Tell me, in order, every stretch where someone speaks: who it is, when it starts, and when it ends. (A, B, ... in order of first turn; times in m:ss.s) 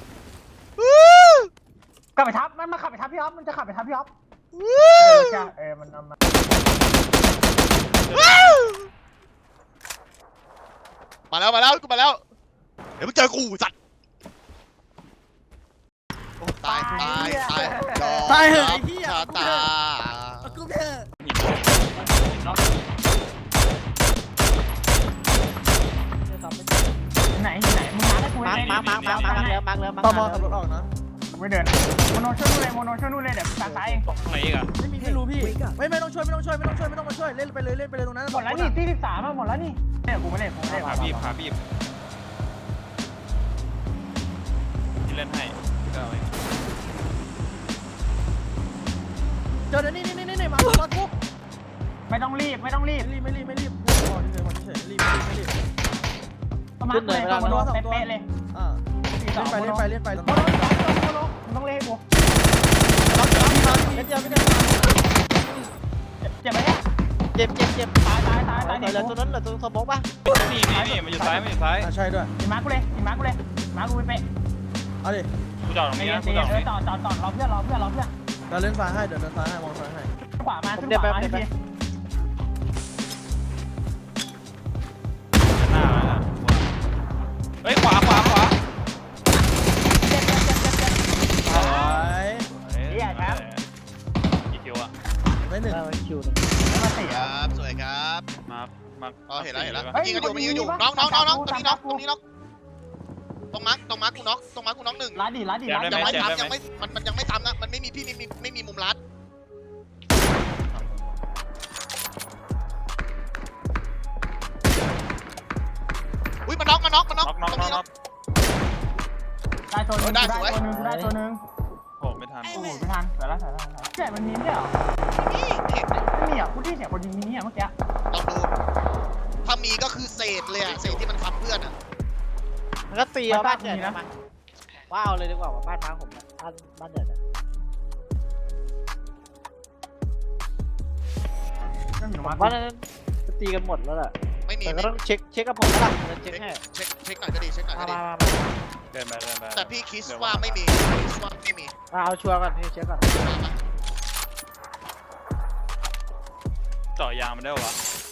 0:00.8-0:01.5 A
0:02.2-0:04.1 B
0:04.5-0:05.5 A
0:05.0-0:06.2 B
0:08.0-0:08.6 C
0:08.1-0:08.9 A
0:11.3-0:12.2 A
0:13.0-0:13.7 A
0:16.4-0:20.6 A
0:16.6-0:18.2 B
0:18.2-0:19.7 D
0:20.4-0:21.1 D
0:21.2-0:22.7 C
0:26.2-0:26.9 E
0:27.3-0:29.6 B
0:28.4-0:30.6 E
0:28.5-0:29.4 C
0:30.0-0:30.9 D
0:31.3-0:34.0 B
0:33.6-0:34.0 E
0:34.1-0:34.7 C
0:34.8-0:38.8 D
0:35.0-0:35.8 E
0:38.3-0:41.2 B
0:40.6-0:41.4 E
0:40.9-0:41.6 C
0:45.0-0:46.3 C
0:49.7-0:51.1 D
0:52.1-0:53.1 B
0:53.0-0:55.5 D
0:56.8-0:58.3 B
0:56.9-0:57.7 E
0:57.4-1:00.8 D
0:59.2-1:02.0 B
1:03.0-1:04.9 E
1:03.3-1:04.8 D
1:06.2-1:06.8 B
1:07.3-1:08.0 E
1:08.0-1:09.2 B
1:08.5-1:10.1 E
1:10.2-1:11.9 C
1:10.7-1:11.4 B
1:11.8-1:12.3 D
1:12.4-1:14.2 B
1:15.0-1:15.3 D
1:15.6-1:16.7 C
1:15.9-1:18.1 B
1:18.5-1:20.1 D
1:20.4-1:21.5 B
1:20.7-1:21.5 E
1:25.5-1:26.7 C
1:27.6-1:28.6 C
1:30.0-1:31.7 B
1:31.4-1:32.5 D
1:31.4-1:33.6 C
1:32.9-1:33.4 B
1:34.5-1:34.9 C
1:35.4-1:35.8 D
1:35.7-1:36.5 E
1:36.7-1:37.3 B
1:37.0-1:38.2 A
1:38.5-1:39.9 C
1:39.3-1:42.2 A
1:39.9-1:42.0 B
1:43.5-1:45.2 A
1:45.1-1:46.3 B
1:45.6-1:46.6 C
1:45.9-1:49.0 A
1:56.4-1:57.8 A
1:57.2-1:57.9 C
1:59.7-2:01.4 B
2:00.0-2:00.5 A
2:00.4-2:01.2 E
2:02.0-2:02.8 C
2:02.5-2:04.8 B
2:05.1-2:06.0 A
2:06.1-2:07.7 B
2:08.1-2:08.5 A
2:09.4-2:11.7 A
2:12.9-2:14.1 E
2:13.3-2:14.0 B
2:14.9-2:17.2 E
2:22.0-2:22.6 B
2:22.2-2:26.6 E
2:24.4-2:24.9 A
2:26.2-2:28.0 A
2:27.7-2:28.6 E
2:28.9-2:30.6 C
2:29.5-2:31.7 A
2:31.9-2:33.3 E
2:33.2-2:33.5 A
2:37.0-2:37.8 C